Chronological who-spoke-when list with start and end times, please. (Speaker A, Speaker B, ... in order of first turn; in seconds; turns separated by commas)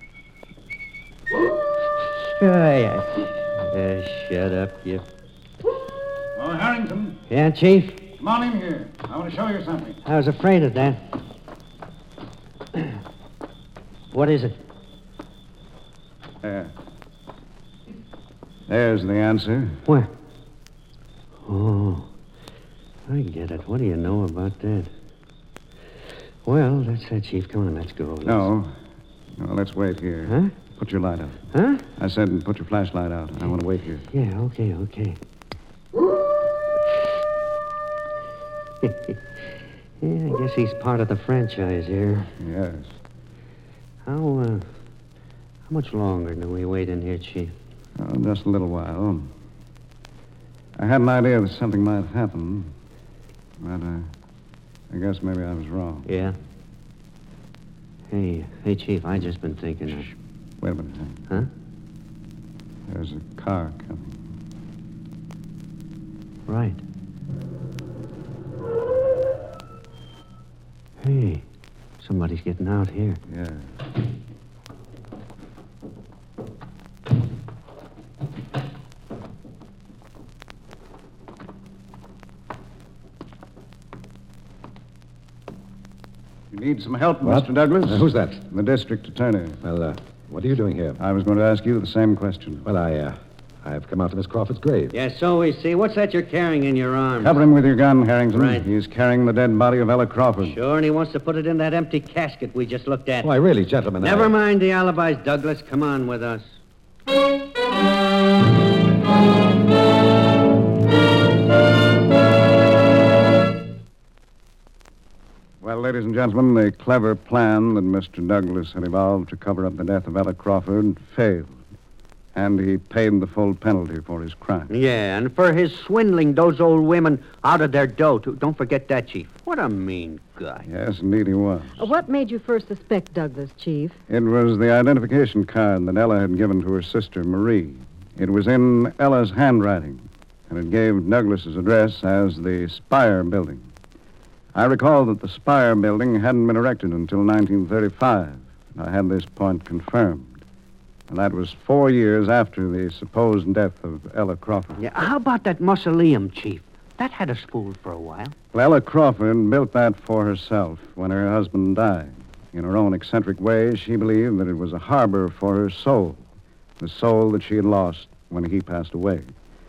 Speaker A: 2.2-5.0, Speaker B: 6.4-7.2, Speaker A: 7.3-8.1, Speaker B: 8.2-10.0, Speaker A: 10.1-11.0, Speaker A: 14.1-14.6, Speaker B: 16.4-16.7, Speaker B: 18.7-19.8, Speaker A: 21.5-22.1, Speaker A: 23.1-24.9, Speaker A: 26.4-28.5, Speaker B: 28.2-28.7, Speaker B: 29.4-31.4, Speaker A: 30.3-30.5, Speaker A: 31.5-31.8, Speaker B: 32.0-34.0, Speaker A: 34.1-35.2, Speaker A: 38.8-39.1, Speaker A: 40.0-42.3, Speaker B: 42.4-42.9, Speaker A: 44.0-44.7, Speaker A: 45.7-47.5, Speaker B: 48.0-49.3, Speaker B: 50.8-52.7, Speaker B: 53.6-54.1, Speaker B: 54.9-56.1, Speaker A: 56.1-56.4, Speaker A: 58.1-60.1, Speaker B: 60.6-61.2, Speaker B: 62.9-64.2, Speaker A: 66.5-66.8, Speaker A: 71.0-71.4, Speaker A: 72.0-73.2, Speaker B: 73.3-73.7, Speaker B: 86.5-89.6, Speaker C: 87.2-88.5, Speaker C: 89.6-91.0, Speaker B: 91.0-92.7, Speaker C: 92.6-95.0, Speaker A: 94.9-97.4, Speaker B: 97.2-100.6, Speaker A: 98.3-98.7, Speaker A: 100.4-103.3, Speaker C: 103.2-104.3, Speaker A: 104.0-106.5, Speaker B: 115.6-121.6, Speaker B: 122.3-124.7, Speaker A: 124.7-130.7, Speaker B: 130.6-131.9, Speaker D: 131.8-134.0, Speaker B: 134.1-143.7, Speaker B: 144.5-150.4, Speaker B: 151.1-154.8, Speaker A: 154.8-158.3, Speaker B: 158.5-166.2, Speaker B: 166.8-169.3